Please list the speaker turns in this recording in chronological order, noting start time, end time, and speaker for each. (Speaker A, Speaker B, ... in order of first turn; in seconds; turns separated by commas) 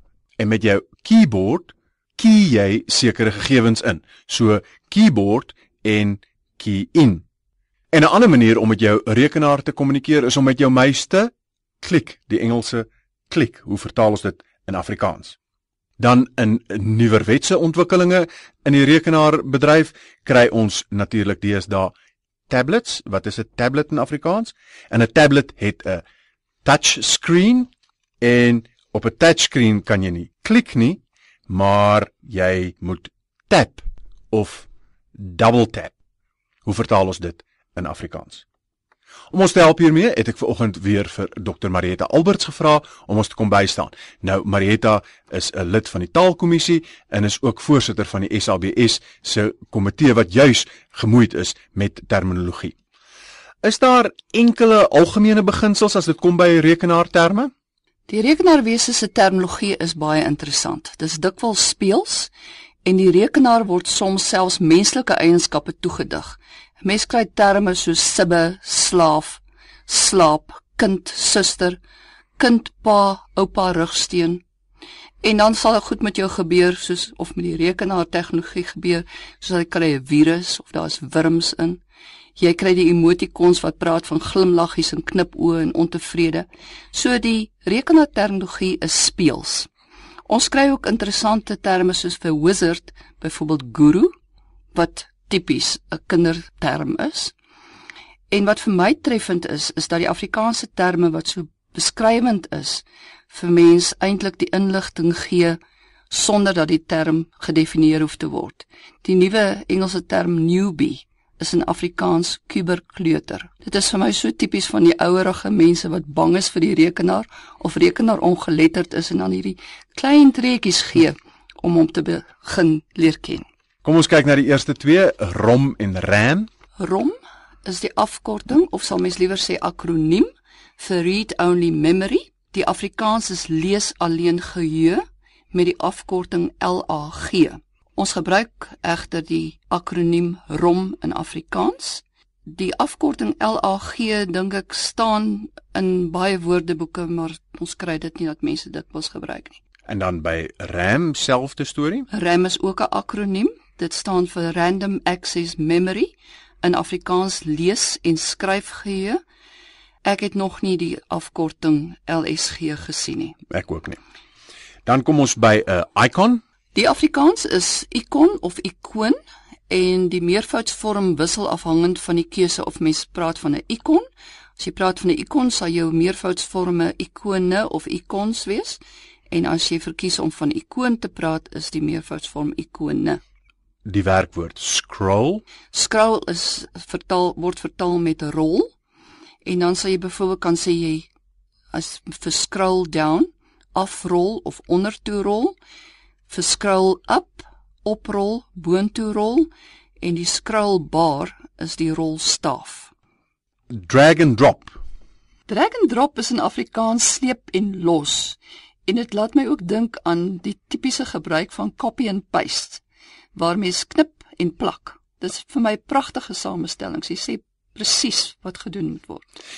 Speaker A: 0.4-7.2, Speaker A: 7.9-15.4, Speaker A: 16.0-21.9, Speaker A: 22.5-26.0, Speaker A: 26.6-27.7, Speaker A: 28.2-35.9, Speaker A: 36.6-38.5, Speaker A: 39.3-52.8, Speaker A: 53.6-57.5, Speaker B: 58.1-62.3, Speaker B: 62.9-71.8, Speaker B: 72.4-74.4, Speaker B: 75.2-81.8, Speaker B: 82.4-89.7, Speaker B: 90.3-94.1, Speaker B: 94.7-97.3, Speaker B: 98.3-123.5, Speaker A: 123.8-126.5, Speaker B: 126.8-149.6, Speaker A: 149.9-152.1, Speaker B: 152.1-159.2, Speaker B: 160.0-163.4, Speaker A: 163.5-164.0, Speaker A: 164.9-166.4, Speaker B: 166.7-169.2, Speaker B: 169.7-174.1, Speaker B: 174.6-183.2, Speaker A: 183.9-185.4, Speaker B: 185.7-188.7, Speaker B: 189.4-191.1, Speaker B: 191.7-195.6, Speaker B: 196.3-199.5, Speaker B: 200.0-202.9, Speaker A: 203.7-204.8, Speaker B: 205.5-212.8, Speaker B: 213.3-219.2